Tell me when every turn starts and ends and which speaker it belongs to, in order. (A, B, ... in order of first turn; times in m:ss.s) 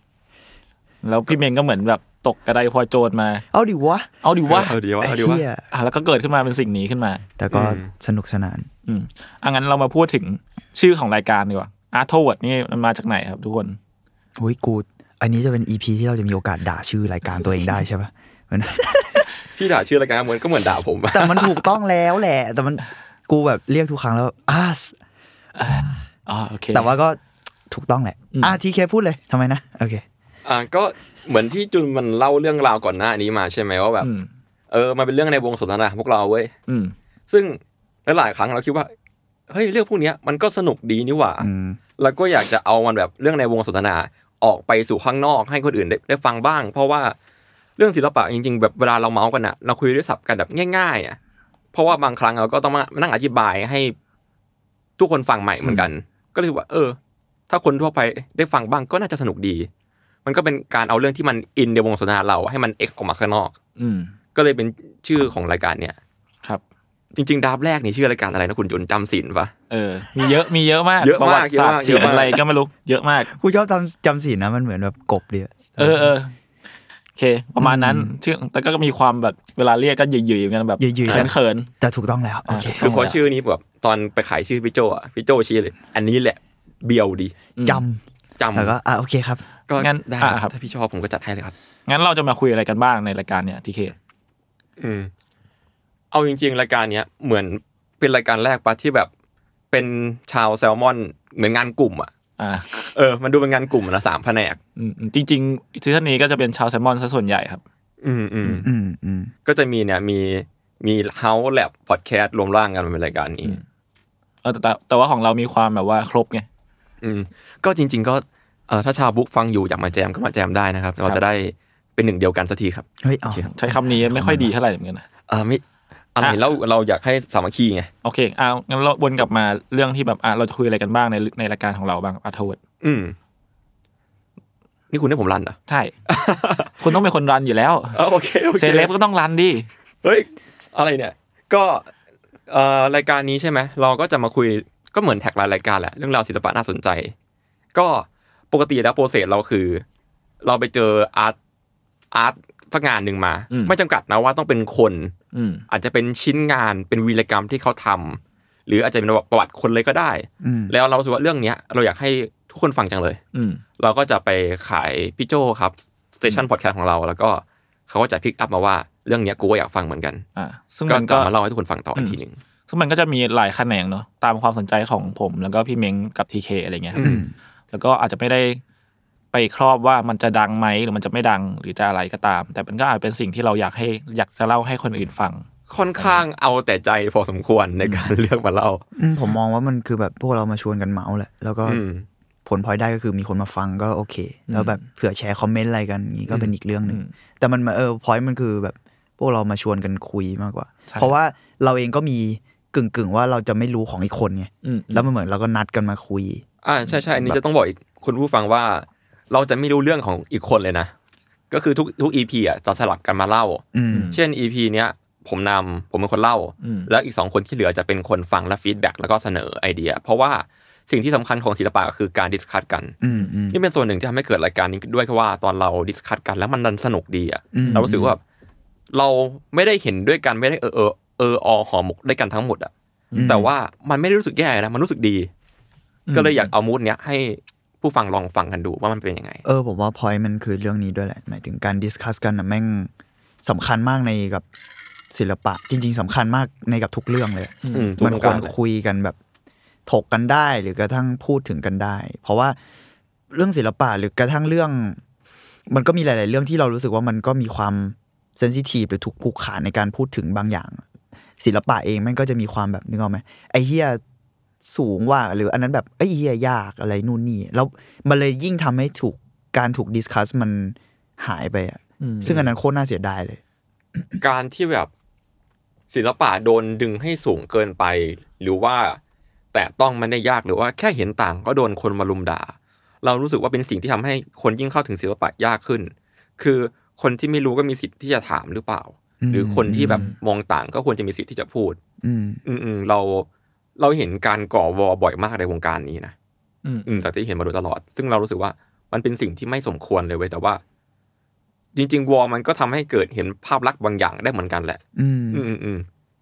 0:01.0-0:03.4 A
0:03.5-0:04.1 B
0:04.2-0:04.8 A
0:04.5-0:05.4 C
0:05.0-0:05.6 B
0:05.7-0:07.2 A
0:07.4-0:08.7 B
0:07.5-0:07.9 C
0:08.8-0:13.8 A
0:14.4-0:19.3 B
0:19.5-0:21.5 C
0:21.1-0:25.0 B
0:25.6-0:26.9 A
0:26.7-0:30.0 B
0:28.3-0:28.6 A
0:30.4-0:34.1 C
0:34.0-0:34.3 A
0:34.7-0:36.5 C
0:36.7-0:36.9 A
0:37.3-0:38.9 C
0:39.5-0:47.2 C
0:41.4-0:41.8 B
0:47.8-0:51.2 C
0:51.7-0:54.0 C
0:55.0-0:57.0 C
0:55.6-0:55.9 A
0:57.5-0:59.7 C
1:00.2-1:03.6 C
1:03.8-1:04.1 A
1:04.3-1:06.0 C
1:07.1-1:09.5 C
1:09.7-1:13.3 A
1:11.0-1:12.4 C
1:12.0-1:12.4 B
1:13.2-1:16.2 B
1:15.8-1:16.3 A
1:17.2-1:21.7 A
1:17.6-1:18.1 B
1:20.8-1:23.1 B
1:22.5-1:23.2 A
1:22.8-1:27.3 C
1:27.6-1:27.8 A
1:27.6-1:28.0 B
1:28.4-1:28.8 C
1:28.5-1:29.4 B
1:29.7-1:31.5 C
1:29.8-1:30.5 A
1:31.8-1:34.0 A
1:34.8-1:35.1 C
1:36.1-1:39.1 C
1:39.7-1:42.1 C
1:42.4-1:42.9 A
1:42.9-1:44.6 C
1:44.8-1:47.6 A
1:48.0-1:48.7 C
1:48.6-1:49.3 B
1:49.4-1:53.6 C
1:54.4-1:56.5 A
1:57.0-2:03.5 C
2:03.0-2:04.5 B
2:03.5-2:05.0 A
2:05.3-2:05.6 C
2:06.1-2:07.9 C
2:08.0-2:12.6 A
2:12.8-2:13.1 C
2:14.9-2:15.6 C
2:15.7-2:15.9 A
2:16.1-2:16.9 C
2:16.8-2:18.0 A
2:17.9-2:18.9 C
2:18.6-2:19.7 A
2:20.0-2:21.9 C
2:22.5-2:27.1 C
2:27.7-2:29.8 C
2:30.4-2:31.4 C
2:32.1-2:35.1 C
2:33.5-2:33.8 A
2:35.3-2:35.6 A
2:35.7-2:43.2 C
2:40.4-2:40.8 B
2:43.3-2:43.6 A
2:43.8-2:50.2 C
2:50.4-2:51.3 A
2:50.9-2:52.4 C
2:51.9-2:57.1 A
2:57.0-2:57.3 B
2:57.0-2:57.2 C
2:57.7-2:58.6 A
2:59.3-3:05.4 A
3:05.7-3:08.8 C
3:06.0-3:06.2 A
3:07.8-3:08.1 A
3:09.0-3:11.8 B
3:11.6-3:12.1 C
3:12.4-3:26.4 B
3:14.5-3:14.8 A
3:16.3-3:17.1 A
3:20.9-3:21.1 A
3:24.6-3:25.1 A
3:26.6-3:30.9 C
3:27.1-3:27.4 B
3:31.5-3:43.0 C
3:33.7-3:34.2 B
3:33.9-3:34.2 A
3:36.6-3:36.9 A
3:43.0-3:43.6 B
3:43.5-3:48.2 C
3:47.5-3:48.0 B
3:47.6-3:48.1 A
3:48.9-3:52.7 C
3:53.1-3:53.5 A
3:53.1-3:53.5 B
3:53.2-3:55.3 C
3:56.1-3:56.5 A
3:56.1-3:59.4 C
3:59.4-4:02.9 B
4:03.4-4:04.4 B
4:05.1-4:09.2 B
4:07.6-4:07.9 A
4:07.7-4:08.5 C
4:09.8-4:12.6 B
4:13.3-4:15.0 B
4:15.7-4:20.8 B
4:21.4-4:24.0 B
4:24.6-4:33.4 B
4:32.0-4:32.5 A
4:34.2-4:34.9 C
4:35.9-4:39.0 C
4:39.5-4:51.8 C
4:49.2-4:50.1 B
4:49.7-4:50.2 A
4:52.0-4:52.4 B
4:52.4-4:56.1 C
4:56.6-4:57.0 A
4:56.8-5:00.6 C
5:01.7-5:04.8 C
5:05.0-5:05.5 B
5:05.3-5:05.8 C